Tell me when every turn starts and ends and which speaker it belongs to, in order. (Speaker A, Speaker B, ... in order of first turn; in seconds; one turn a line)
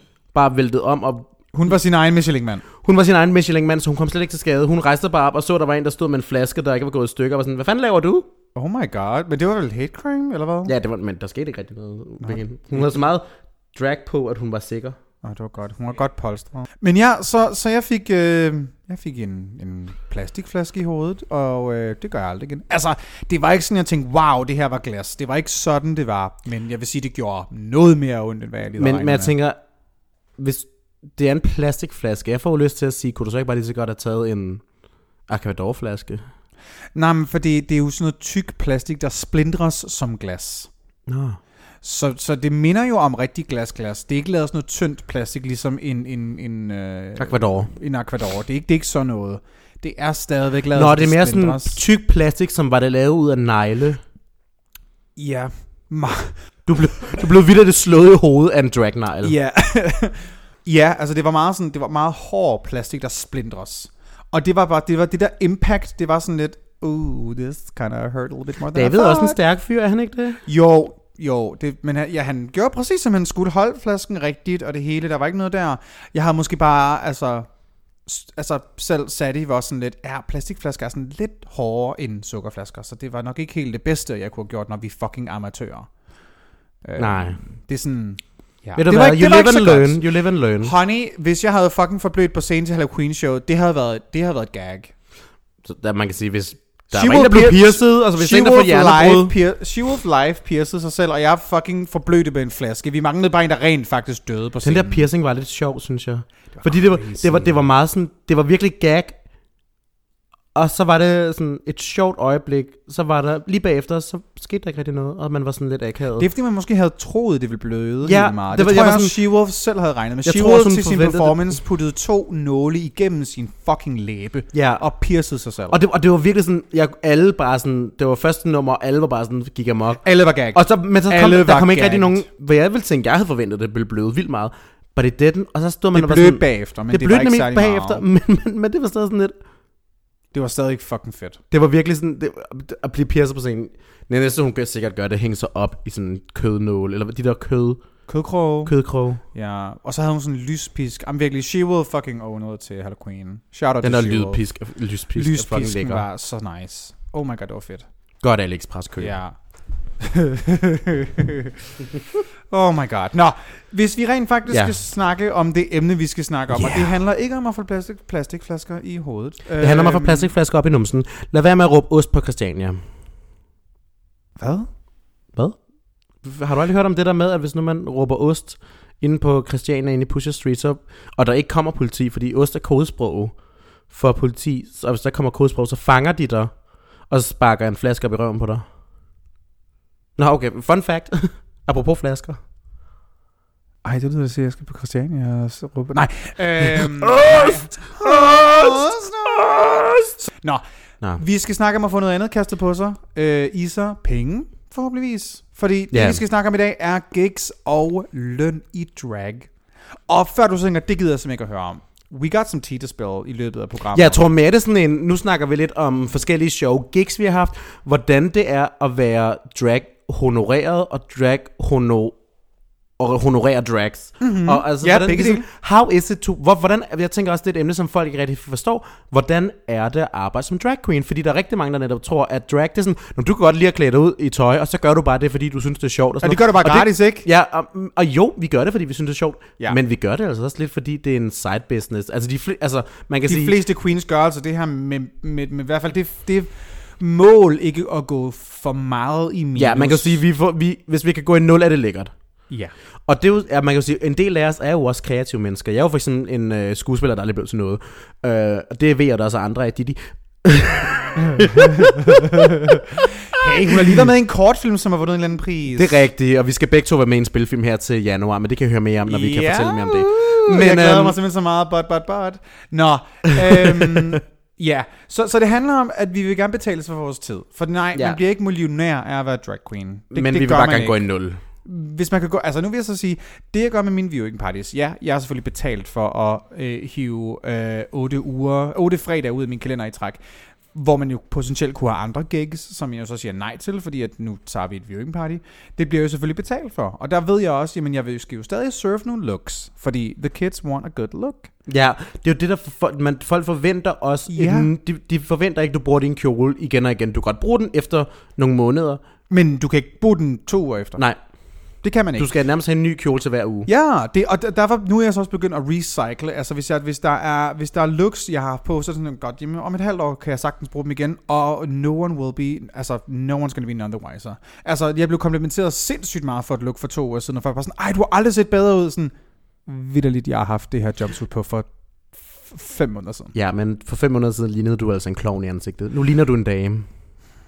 Speaker A: 0.3-1.3
Speaker B: 1.5-2.6
Speaker A: 2.8-8.3
Speaker B: 8.6-10.7
Speaker A: 10.7-15.0
Speaker B: 12.2-13.0
Speaker B: 15.2-29.3
Speaker A: 28.8-29.6
Speaker A: 30.4-36.3
Speaker B: 36.9-40.7
Speaker A: 41.1-41.4
Speaker B: 41.8-51.8
Speaker A: 47.2-47.7
Speaker A: 50.7-54.0
Speaker B: 55.2-57.1
Speaker A: 56.7-59.4
Speaker B: 59.2-69.4
Speaker A: 68.7-70.4
Speaker B: 70.5-77.5
Speaker B: 78.0-86.0
Speaker B: 86.8-95.0
Speaker A: 87.0-87.4
Speaker A: 88.8-90.7
Speaker A: 95.6-99.4
Speaker B: 96.9-105.1
Speaker A: 104.6-109.2
Speaker B: 106.5-107.6
Speaker A: 110.5-116.3
Speaker B: 116.2-125.8
Speaker A: 118.0-119.3
Speaker A: 120.2-121.6
Speaker A: 124.5-124.9
Speaker A: 125.7-139.3
Speaker B: 130.0-132.3
Speaker B: 135.9-138.1
Speaker B: 140.3-141.4
Speaker A: 141.5-148.1
Speaker B: 148.1-157.9
Speaker A: 148.7-149.2
Speaker A: 153.8-156.1
Speaker A: 158.2-159.2
Speaker B: 159.0-161.5
Speaker B: 162.5-170.3
Speaker A: 164.5-164.8
Speaker A: 166.5-166.9
Speaker A: 169.6-172.9
Speaker B: 174.4-174.8
Speaker A: 175.3-188.7
Speaker A: 190.2-192.4
Speaker B: 193.8-214.2
Speaker A: 196.6-200.1
Speaker A: 205.9-206.2
Speaker A: 213.9-243.6
Speaker B: 224.2-225.5
Speaker B: 236.2-237.3
Speaker B: 243.3-250.2
Speaker A: 249.6-252.5
Speaker B: 252.5-252.8
Speaker A: 253.1-262.4
Speaker B: 263.4-266.0
Speaker A: 263.7-264.0
Speaker A: 265.8-271.2
Speaker B: 269.1-301.5
Speaker A: 273.3-273.9
Speaker A: 277.9-278.2
Speaker A: 280.1-281.4
Speaker A: 301.7-309.0
Speaker B: 304.3-304.7
Speaker B: 309.3-312.3
Speaker A: 311.0-313.7
Speaker B: 313.7-333.3
Speaker A: 333.3-336.9